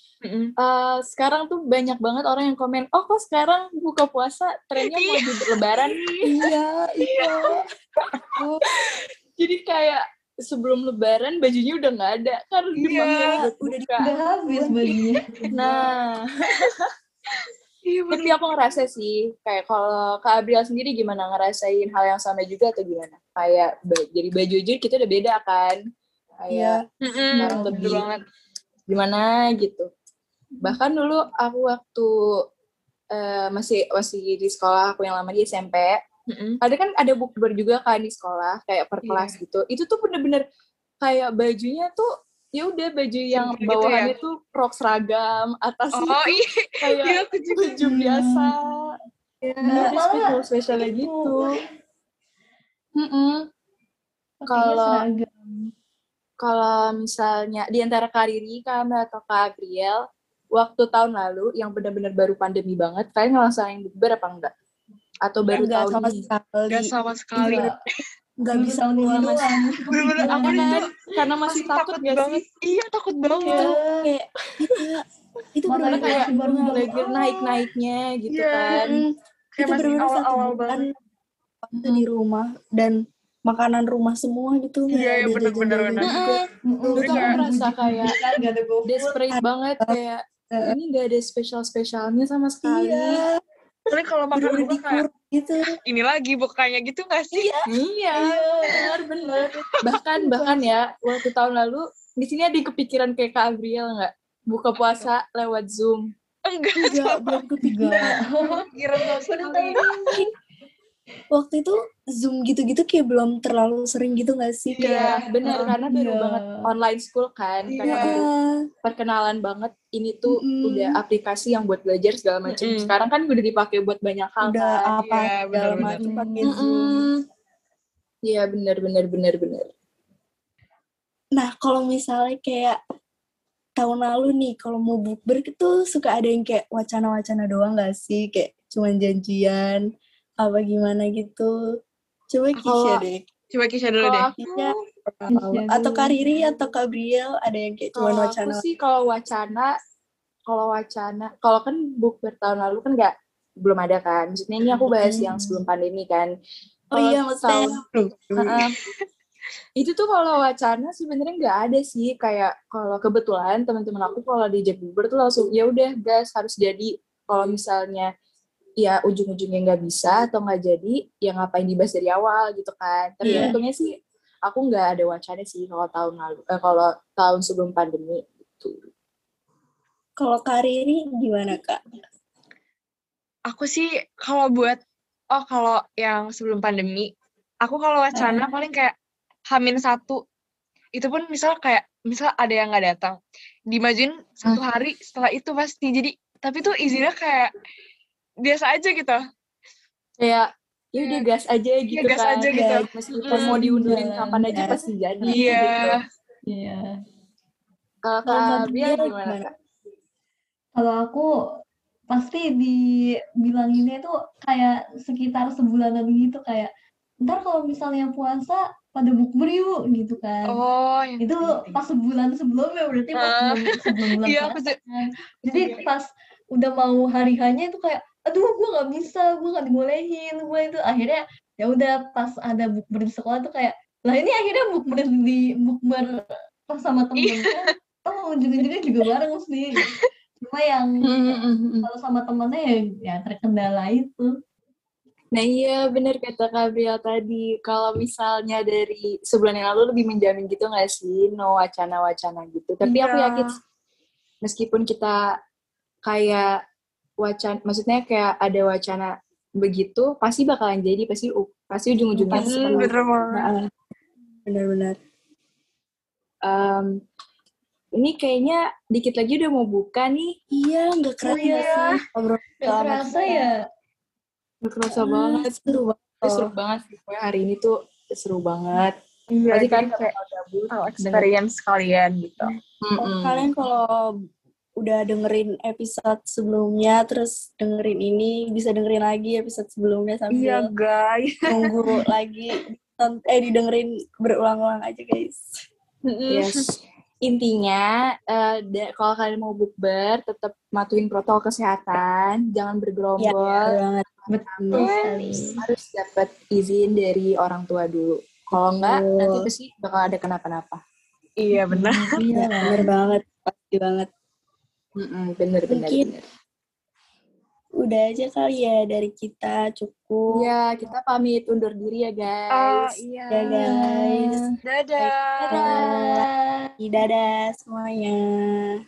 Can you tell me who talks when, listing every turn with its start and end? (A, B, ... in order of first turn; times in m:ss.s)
0:00.2-0:00.5 A
0:00.6-0:06.3 B
0:04.8-0:05.4 A
0:06.2-0:07.6 C
0:08.4-0:08.6 C
0:09.4-0:14.1 B
0:12.8-0:13.4 A
0:13.0-0:14.8 C
0:14.0-0:15.6 D
0:15.5-0:16.7 B
0:17.8-0:18.4 A
0:18.1-0:25.8 B
0:26.4-0:26.8 B
0:26.5-0:26.8 C
0:27.0-0:28.2 A
0:27.3-0:28.0 D
0:27.3-0:28.1 B
0:28.9-0:29.9 B
0:30.6-0:32.1 B
0:33.1-0:36.0 B
0:36.3-0:36.6 A
0:36.6-0:40.4 B
0:39.0-0:39.3 A
0:41.0-0:48.9 B
0:43.4-0:44.2 A
0:45.9-0:47.8 A
0:47.8-0:48.6 D
0:49.6-0:51.5 D
0:49.6-0:49.9 C
0:49.6-0:51.5 B
0:53.0-0:53.4 B
0:54.4-0:55.7 D
0:54.5-0:55.0 B
0:56.4-1:00.0 B
1:00.5-1:04.5 B
1:05.2-1:06.3 B
1:05.5-1:07.7 C
1:06.7-1:07.7 A
1:07.4-1:07.7 D
1:08.4-1:09.6 C
1:08.5-1:11.0 D
1:09.1-1:12.4 B
1:09.9-1:10.8 A
1:11.5-1:13.7 A
1:13.4-1:15.0 C
1:13.4-1:14.1 D
1:15.6-1:16.9 C
1:15.7-1:17.1 D
1:15.9-1:18.9 B
1:18.3-1:18.8 A
1:18.7-1:20.9 C
1:19.6-1:20.9 A
1:21.6-1:26.4 C
1:24.9-1:26.4 A
1:26.7-1:29.2 D
1:27.0-1:27.4 A
1:27.0-1:28.2 B
1:28.8-1:33.2 B
1:29.3-1:30.0 C
1:32.6-1:33.3 C
1:33.9-1:35.0 A
1:34.3-1:35.6 C
1:35.8-1:37.5 A
1:37.3-1:37.7 C
1:37.7-1:46.0 B
1:38.1-1:39.6 D
1:40.2-1:40.7 C
1:44.8-1:45.1 A
1:46.5-1:47.4 A
1:46.8-1:48.2 C
1:47.6-1:50.2 D
1:48.5-1:49.8 A
1:51.3-1:55.2 C
1:54.7-1:55.2 A
1:54.9-1:58.3 B
1:55.4-1:56.6 D
1:57.7-1:58.2 A
1:57.8-1:58.4 C
1:58.8-2:04.8 B
2:00.3-2:00.9 C
2:02.5-2:02.9 A
2:04.4-2:07.0 C
2:05.0-2:06.0 A
2:06.0-2:07.1 B
2:08.2-2:09.7 B
2:11.3-2:12.8 C
2:13.8-2:19.8 C
2:20.4-2:21.5 C
2:22.3-2:23.2 C
2:22.6-2:22.9 A
2:23.5-2:24.3 A
2:24.0-2:24.7 B
2:24.4-2:28.6 C
2:25.3-2:26.3 D
2:27.9-2:29.7 B
2:30.5-2:36.3 B
2:36.9-2:38.6 C
2:36.9-2:37.8 B
2:38.4-2:38.7 B
2:39.8-2:48.1 B
2:48.8-2:53.9 B
2:53.2-2:53.5 C
2:54.4-2:58.9 B
3:00.2-3:01.8 C
3:03.5-3:04.8 A
3:05.3-3:07.1 A
3:07.6-3:08.9 A
3:09.5-3:10.2 A
3:10.9-3:13.2 A
3:13.7-3:17.5 A
3:18.4-3:19.2 A
3:20.2-3:26.0 B
3:21.0-3:21.2 A
3:21.9-3:23.6 A
3:22.5-3:23.6 C
3:23.3-3:25.6 D
3:24.5-3:24.8 C
3:25.2-3:26.0 A
3:26.5-3:27.0 D
3:28.0-3:29.5 B
3:28.3-3:29.5 C
3:30.7-3:31.3 D
3:32.1-3:32.8 D
3:33.4-3:36.7 D
3:37.2-3:40.6 D
3:40.5-3:41.8 A
3:41.2-3:59.9 D
3:43.1-3:44.8 A
3:45.4-3:45.8 A
3:57.2-3:57.7 A
4:00.4-4:04.3 D
4:01.0-4:01.9 B
4:05.3-4:13.5 B
4:12.8-4:13.4 A
4:14.4-4:15.2 B
4:16.0-4:16.5 B
4:17.2-4:22.9 B
4:22.2-4:23.7 C
4:22.3-4:23.5 A
4:24.4-4:25.0 C
4:26.4-4:26.9 B
4:28.0-4:30.3 B
4:30.5-4:33.5 C
4:31.2-4:31.8 D
4:32.6-4:33.5 D
4:34.6-4:38.9 B
4:34.9-4:36.5 C
4:39.3-4:40.1 A
4:39.5-4:41.3 B
4:40.7-4:42.5 A
4:42.4-4:43.5 B
4:43.0-4:44.1 C
4:44.8-4:50.7 C
4:50.3-4:51.6 A
4:51.5-4:55.5 C
4:56.0-4:56.5 A
4:56.3-4:56.6 B
4:57.2-5:05.1 B
5:03.2-5:04.9 C
5:04.3-5:05.6 D
5:04.7-5:05.0 A
5:05.6-5:10.8 B
5:08.8-5:09.4 C
5:11.4-5:12.1 A
5:11.7-5:12.8 D
5:12.3-5:14.1 C
5:15.0-5:16.2 B
5:15.7-5:16.1 C
5:17.8-5:20.4 C
5:20.3-5:23.0 B
5:22.5-5:23.6 A
5:23.3-5:24.4 C
5:23.5-5:24.5 D
5:24.6-5:25.7 A
5:25.0-5:26.3 C
5:25.4-5:26.1 B
5:25.5-5:26.7 D
5:26.8-5:28.7 C